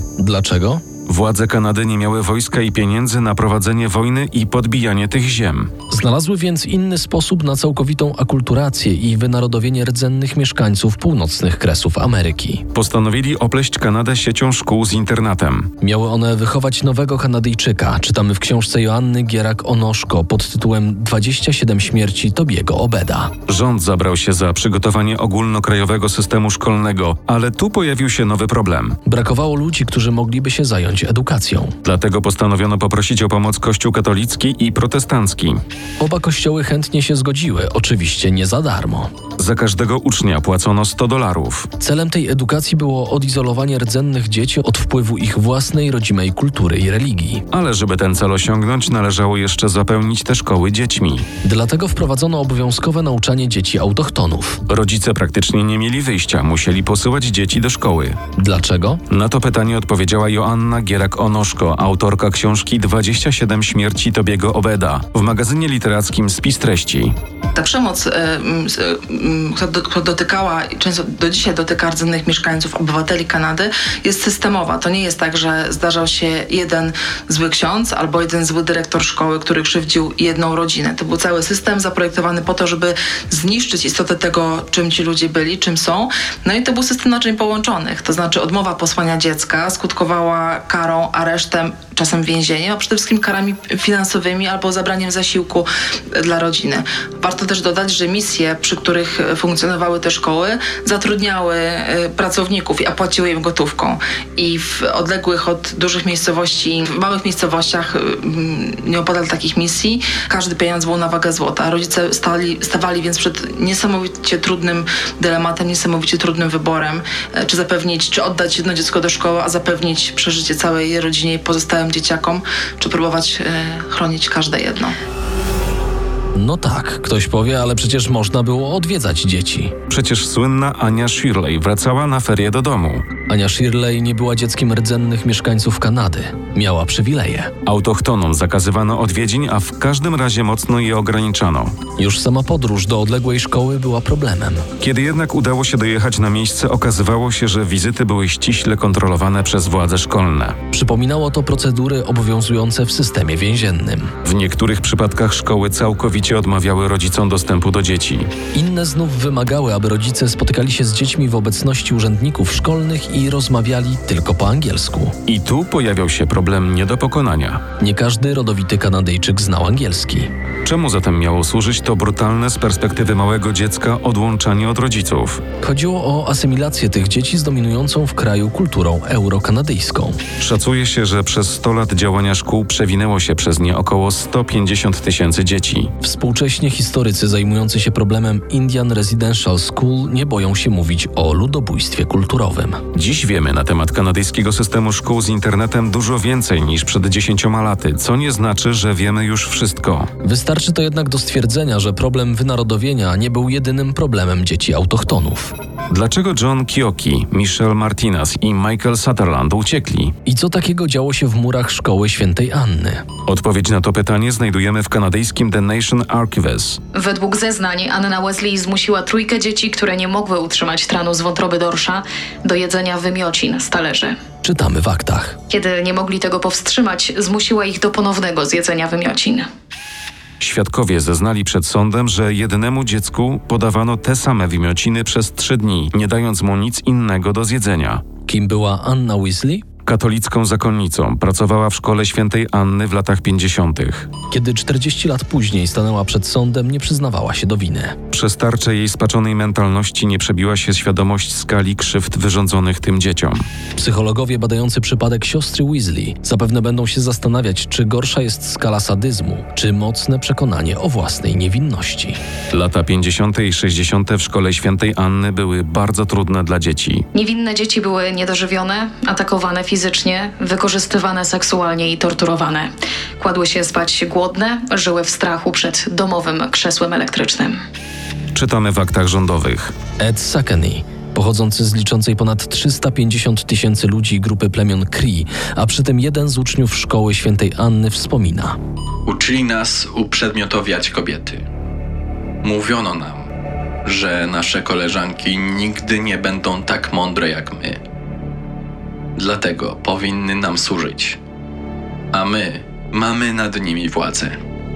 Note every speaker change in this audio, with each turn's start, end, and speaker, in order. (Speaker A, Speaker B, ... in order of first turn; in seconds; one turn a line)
Speaker A: 0.2-0.8
Speaker B: 1.1-5.7
Speaker A: 5.9-12.6
Speaker B: 12.7-15.7
Speaker A: 15.8-23.3
Speaker B: 23.5-29.0
Speaker A: 29.1-31.7
Speaker B: 31.8-35.6
Speaker A: 36.0-39.1
Speaker B: 39.4-41.7
Speaker A: 41.8-47.4
Speaker B: 47.5-51.3
Speaker A: 51.4-54.6
Speaker B: 54.7-58.2
Speaker A: 58.4-59.0
Speaker B: 59.1-67.1
Speaker C: 67.5-124.9
Speaker A: 126.3-129.7
Speaker B: 129.9-133.1
Speaker A: 133.3-137.5
Speaker B: 137.6-141.8
Speaker A: 142.0-144.7
Speaker B: 144.8-150.6
Speaker A: 150.7-154.1
Speaker B: 154.2-158.3
Speaker A: 158.5-165.1
Speaker B: 165.2-167.6
Speaker A: 167.8-170.3
Speaker B: 170.6-175.4
Speaker A: 175.6-180.2
Speaker B: 180.4-185.9
Speaker A: 186.0-192.8
Speaker B: 192.9-200.1
Speaker A: 200.2-205.5
Speaker B: 205.9-210.1
Speaker A: 210.2-213.0
Speaker B: 213.2-216.8
Speaker D: 216.9-224.2
Speaker A: 224.4-225.4
Speaker D: 225.5-229.4
Speaker B: 230.4-238.0
Speaker A: 238.3-239.6
Speaker B: 239.8-244.1
Speaker A: 244.3-247.9
Speaker B: 248.1-253.5
Speaker A: 253.8-262.2
Speaker B: 262.5-267.1
Speaker D: 267.1-277.6
Speaker B: 278.3-279.7
Speaker A: 280.0-288.6
Speaker E: 289.1-291.4
Speaker E: 292.4-293.3
Speaker E: 293.8-297.8
Speaker E: 299.2-301.2
Speaker E: 302.1-304.4